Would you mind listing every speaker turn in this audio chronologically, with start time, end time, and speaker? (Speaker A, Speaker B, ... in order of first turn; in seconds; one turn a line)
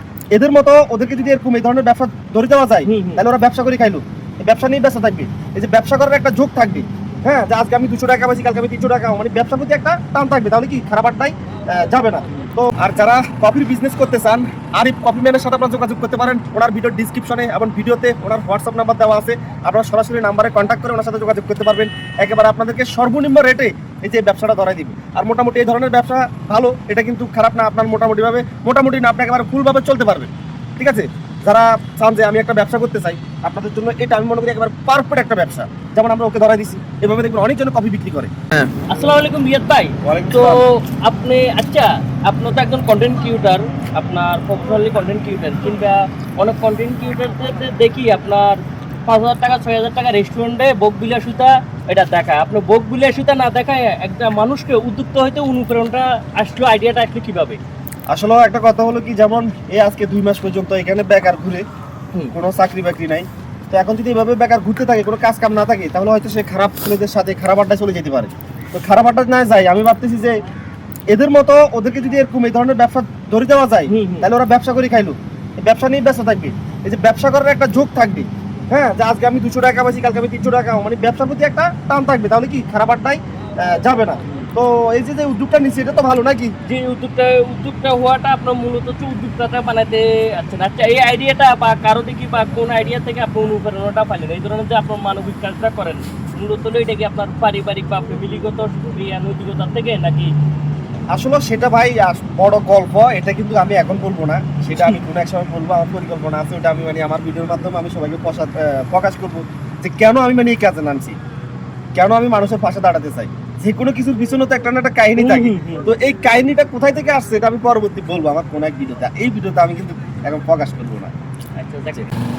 Speaker A: 0.3-38.3
Speaker B: 2.9-3.2
Speaker B: 38.9-48.5
Speaker A: 40.0-40.6
Speaker B: 49.1-57.6
Speaker A: 58.1-61.6
Speaker A: 62.3-70.4
Speaker A: 71.1-86.5
Speaker B: 73.9-74.3
Speaker B: 86.7-100.3
Speaker A: 101.1-111.2
Speaker A: 112.0-121.1
Speaker B: 115.2-115.9
Speaker B: 121.6-122.1